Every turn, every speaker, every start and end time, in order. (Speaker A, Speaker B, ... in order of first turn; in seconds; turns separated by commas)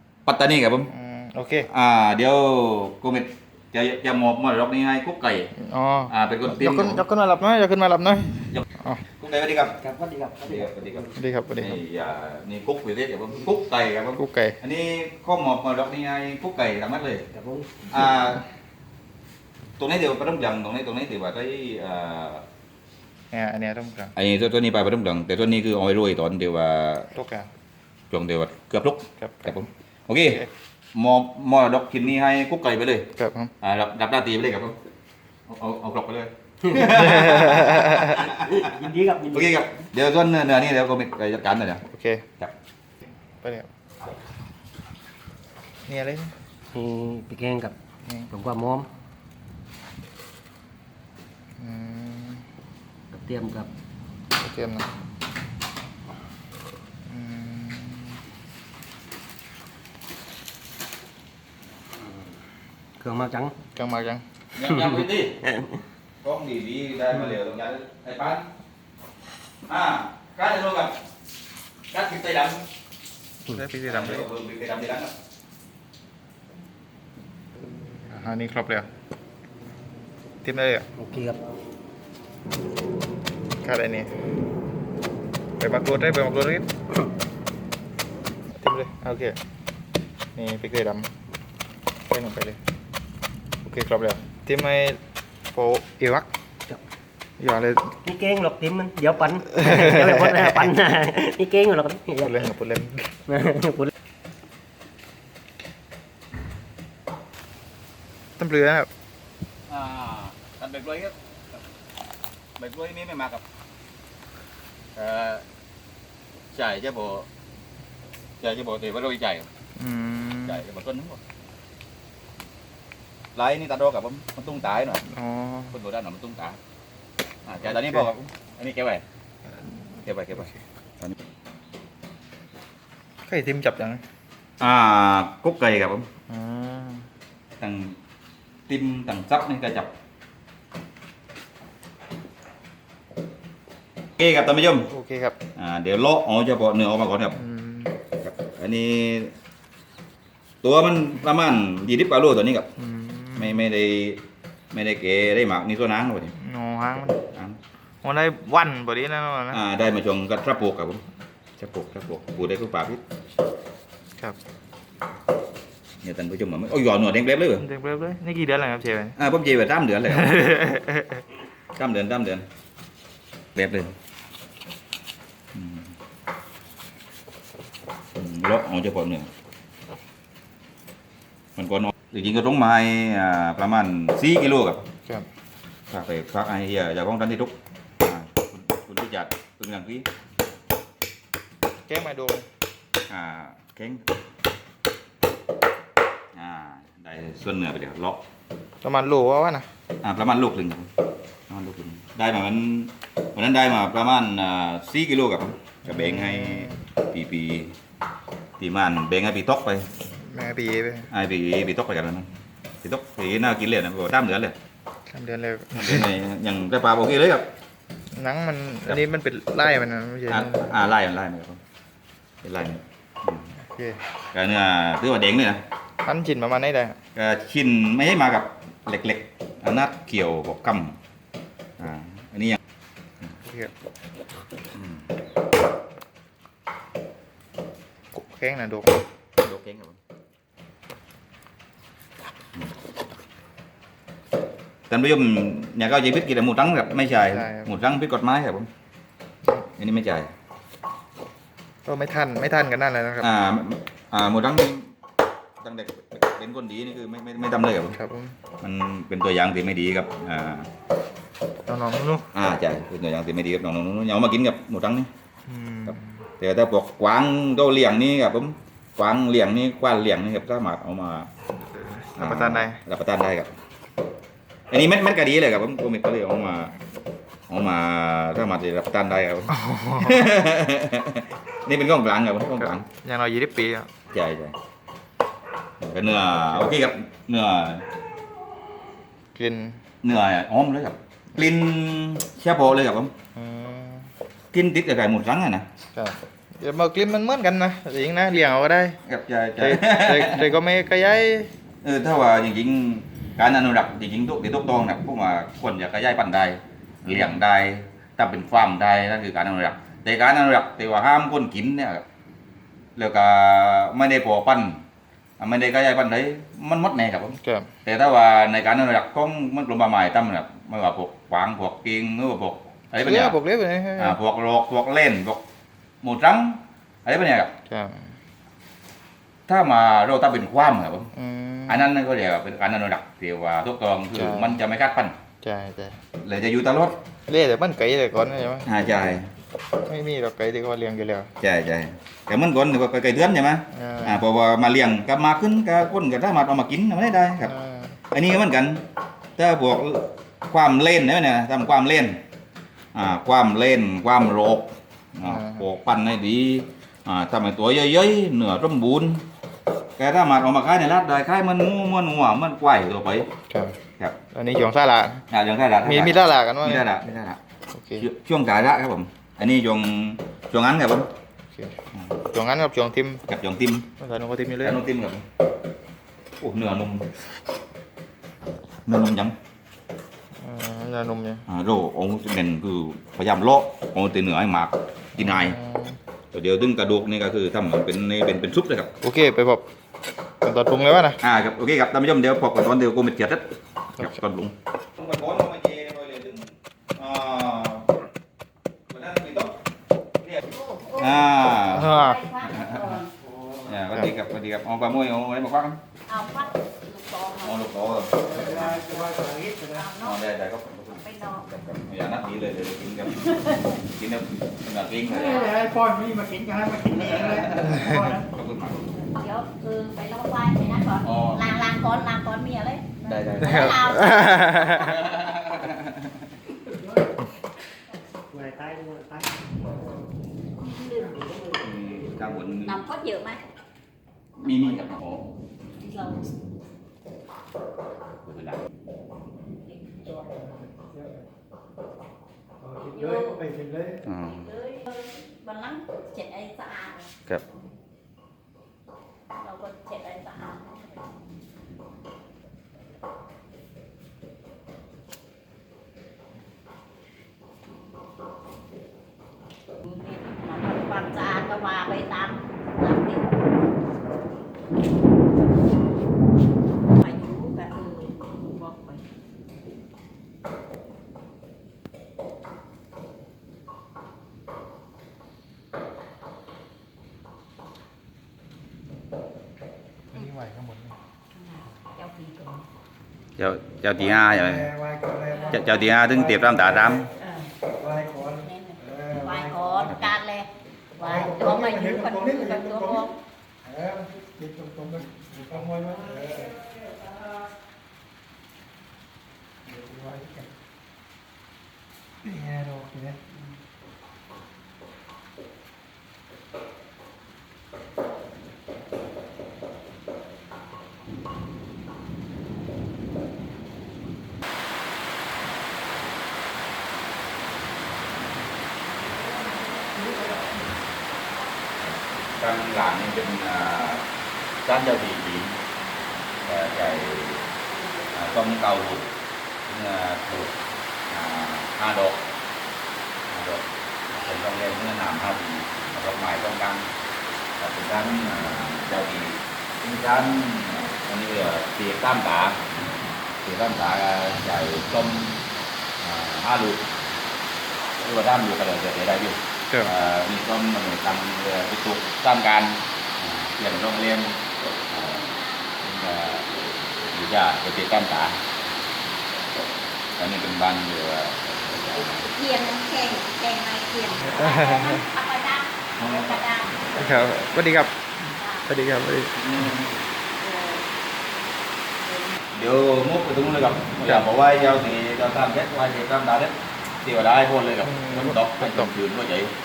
Speaker A: 0.3-0.9, Speaker B: 0.9-1.7, Speaker A: 1.7-5.5, Speaker B: 5.5-9.0, Speaker A: 6.1-7.0, Speaker A: 9.2-9.8, Speaker C: 9.8-11.2, Speaker A: 10.5-17.3, Speaker B: 11.2-11.8, Speaker B: 14.2-14.6, Speaker C: 17.3-18.0, Speaker A: 17.9-18.4, Speaker A: 19.8-22.5, Speaker B: 23.3-24.1, Speaker A: 24.2-27.1, Speaker B: 27.1-27.5, Speaker A: 28.1-34.8, Speaker B: 29.2-29.6, Speaker B: 33.2-33.5, Speaker A: 35.5-38.7, Speaker C: 36.7-37.0, Speaker B: 37.2-38.2, Speaker C: 38.2-39.6, Speaker A: 39.3-41.8, Speaker B: 41.9-42.3, Speaker B: 43.4-43.7, Speaker B: 45.9-46.3, Speaker C: 46.7-47.8, Speaker C: 48.3-48.9, Speaker B: 51.6-52.4, Speaker C: 53.1-53.7, Speaker B: 54.4-54.9, Speaker B: 57.1-58.2, Speaker C: 63.0-63.6, Speaker B: 63.8-64.2, Speaker A: 64.5-65.5, Speaker C: 65.5-65.8, Speaker A: 66.2-68.5, Speaker A: 69.6-71.0, Speaker A: 71.9-72.7, Speaker B: 73.5-74.3, Speaker A: 73.9-75.1, Speaker B: 78.1-78.9, Speaker B: 80.4-80.9, Speaker C: 81.0-81.4, Speaker B: 83.6-84.1, Speaker B: 85.6-86.7, Speaker B: 88.6-89.4, Speaker B: 90.3-91.1, Speaker B: 92.1-92.6, Speaker B: 93.6-95.0, Speaker B: 95.5-96.3, Speaker B: 97.4-98.0, Speaker C: 98.0-102.4, Speaker B: 99.6-100.6, Speaker B: 102.2-103.1, Speaker C: 103.3-103.9, Speaker B: 108.4-108.9, Speaker A: 109.7-111.2, Speaker A: 112.6-113.4, Speaker A: 115.0-115.5, Speaker A: 116.5-117.3, Speaker A: 118.4-119.5, Speaker B: 119.8-120.6, Speaker A: 120.5-121.2, Speaker A: 123.3-125.0, Speaker B: 125.1-125.7, Speaker A: 125.7-126.6, Speaker A: 127.5-129.1, Speaker A: 130.0-131.2, Speaker B: 133.3-134.0, Speaker A: 134.6-136.1, Speaker B: 136.3-137.1, Speaker A: 137.6-138.0, Speaker A: 138.7-139.9, Speaker A: 144.2-144.9, Speaker B: 144.9-145.4, Speaker A: 145.6-147.4, Speaker B: 147.4-147.9, Speaker A: 148.2-149.3, Speaker A: 150.6-152.7, Speaker B: 152.8-153.6, Speaker A: 153.3-156.3, Speaker B: 156.3-157.2, Speaker B: 158.0-159.6, Speaker A: 159.5-161.1, Speaker A: 161.6-163.0, Speaker A: 166.0-167.6, Speaker B: 167.6-169.2, Speaker A: 169.2-170.5, Speaker B: 170.2-171.2, Speaker A: 171.8-172.5, Speaker A: 173.6-174.0, Speaker A: 175.5-175.9, Speaker A: 178.2-179.3, Speaker A: 181.6-184.8, Speaker A: 185.9-190.1, Speaker B: 191.9-192.5, Speaker A: 193.1-194.1, Speaker A: 196.3-198.2, Speaker B: 198.8-199.7, Speaker A: 200.0-200.9, Speaker A: 201.5-207.8, Speaker B: 205.8-206.8, Speaker A: 208.6-209.9, Speaker B: 210.2-211.1, Speaker A: 211.1-212.3, Speaker A: 212.8-214.6, Speaker B: 215.1-216.1, Speaker A: 215.7-217.5, Speaker B: 218.1-220.7, Speaker A: 220.3-221.6, Speaker A: 222.4-223.5, Speaker B: 223.7-224.0, Speaker A: 224.3-225.6, Speaker B: 226.0-227.0, Speaker A: 227.2-231.0, Speaker A: 231.8-232.6, Speaker B: 233.4-233.7, Speaker A: 234.7-235.1, Speaker B: 238.1-239.0, Speaker A: 239.4-240.0, Speaker A: 244.9-248.7, Speaker B: 247.2-247.7, Speaker A: 249.7-250.3, Speaker B: 251.8-253.3, Speaker A: 253.2-254.9, Speaker A: 255.6-258.0, Speaker B: 257.9-258.4, Speaker A: 258.6-260.7, Speaker B: 261.7-262.3, Speaker A: 262.3-265.1, Speaker B: 265.5-266.1, Speaker A: 265.9-271.3, Speaker B: 271.8-272.8, Speaker A: 272.2-273.5, Speaker A: 274.7-276.8, Speaker A: 277.5-282.9, Speaker B: 279.5-280.3, Speaker B: 282.6-283.9, Speaker A: 284.1-284.6, Speaker A: 285.8-287.9, Speaker B: 289.4-289.8, Speaker A: 290.0-293.1, Speaker B: 293.4-294.1, Speaker A: 294.5-295.7, Speaker B: 295.9-299.0, Speaker A: 299.0-300.5, Speaker B: 299.6-301.5, Speaker A: 301.8-312.0, Speaker B: 307.1-307.4, Speaker A: 313.0-314.8, Speaker A: 315.4-323.4, Speaker B: 317.4-317.7, Speaker B: 323.0-324.2, Speaker A: 324.0-325.4, Speaker A: 326.0-327.5, Speaker B: 327.7-328.1, Speaker A: 329.5-331.1, Speaker B: 331.1-331.9, Speaker A: 331.7-335.2, Speaker B: 334.1-334.6, Speaker B: 335.4-336.0, Speaker A: 336.2-337.0, Speaker B: 337.3-338.7, Speaker A: 338.7-339.3, Speaker B: 339.8-341.3, Speaker A: 341.4-347.5, Speaker B: 343.7-344.2, Speaker B: 347.4-348.0, Speaker A: 348.1-348.9, Speaker A: 349.4-352.2, Speaker A: 352.9-359.3, Speaker B: 355.2-355.6, Speaker A: 360.0-363.3, Speaker B: 363.5-363.8, Speaker B: 364.3-365.2, Speaker A: 365.3-367.4, Speaker B: 365.8-366.9, Speaker B: 367.7-368.1, Speaker A: 368.0-371.1, Speaker B: 371.6-373.2, Speaker A: 373.3-373.9, Speaker B: 374.0-374.8, Speaker A: 374.6-375.2, Speaker A: 376.4-377.1, Speaker A: 378.9-379.4, Speaker B: 380.4-381.5, Speaker A: 381.5-385.6, Speaker B: 385.2-386.0, Speaker A: 386.3-388.9, Speaker B: 389.0-389.7, Speaker B: 390.4-391.2, Speaker A: 391.2-393.5, Speaker A: 394.0-397.9, Speaker A: 398.9-399.6, Speaker D: 400.5-403.1, Speaker A: 401.0-403.0, Speaker B: 401.7-402.2, Speaker E: 403.2-403.7, Speaker A: 403.6-405.8, Speaker D: 406.1-407.7, Speaker A: 407.4-408.8, Speaker E: 408.2-409.9, Speaker D: 408.6-410.2, Speaker A: 410.0-415.5, Speaker D: 410.9-411.5, Speaker D: 413.2-413.7, Speaker E: 415.1-418.3, Speaker A: 417.0-418.8, Speaker D: 418.9-425.2, Speaker A: 421.0-421.4, Speaker C: 423.1-424.0, Speaker B: 423.4-424.9, Speaker A: 424.6-426.3, Speaker C: 428.3-429.5, Speaker C: 430.6-431.6, Speaker A: 431.6-432.8, Speaker D: 432.6-433.4, Speaker A: 434.4-435.4, Speaker D: 435.8-436.3, Speaker A: 438.2-438.7, Speaker E: 440.0-441.3, Speaker E: 442.6-444.0, Speaker D: 442.9-443.4, Speaker A: 444.0-444.5, Speaker D: 444.1-447.1, Speaker D: 449.4-451.1, Speaker D: 459.8-463.3, Speaker D: 466.9-469.0, Speaker B: 480.1-480.9, Speaker D: 481.3-482.6, Speaker A: 483.4-484.7, Speaker E: 484.1-487.1, Speaker A: 485.5-487.1, Speaker D: 487.2-487.5, Speaker E: 487.7-490.0, Speaker D: 488.4-493.2, Speaker A: 489.9-490.2, Speaker E: 491.0-493.1, Speaker E: 493.6-497.2, Speaker E: 499.6-500.5, Speaker E: 502.2-503.2, Speaker D: 519.6-520.4, Speaker A: 521.8-524.0, Speaker A: 524.6-525.6, Speaker A: 526.4-527.5, Speaker A: 528.1-529.1, Speaker A: 529.6-530.5, Speaker A: 531.1-532.2, Speaker A: 533.3-536.9, Speaker A: 537.6-542.6, Speaker A: 543.4-545.4, Speaker A: 546.0-546.9, Speaker A: 548.0-554.4, Speaker A: 554.9-555.2, Speaker D: 555.0-555.8, Speaker A: 555.8-556.5, Speaker A: 557.1-558.4, Speaker A: 560.2-562.3, Speaker D: 562.4-566.8, Speaker B: 564.3-565.0, Speaker A: 566.0-567.4, Speaker B: 567.0-568.0, Speaker D: 568.4-568.7, Speaker B: 568.7-569.4, Speaker A: 569.4-569.9, Speaker D: 570.4-570.9, Speaker D: 572.0-572.5, Speaker A: 572.5-579.5, Speaker B: 577.9-578.9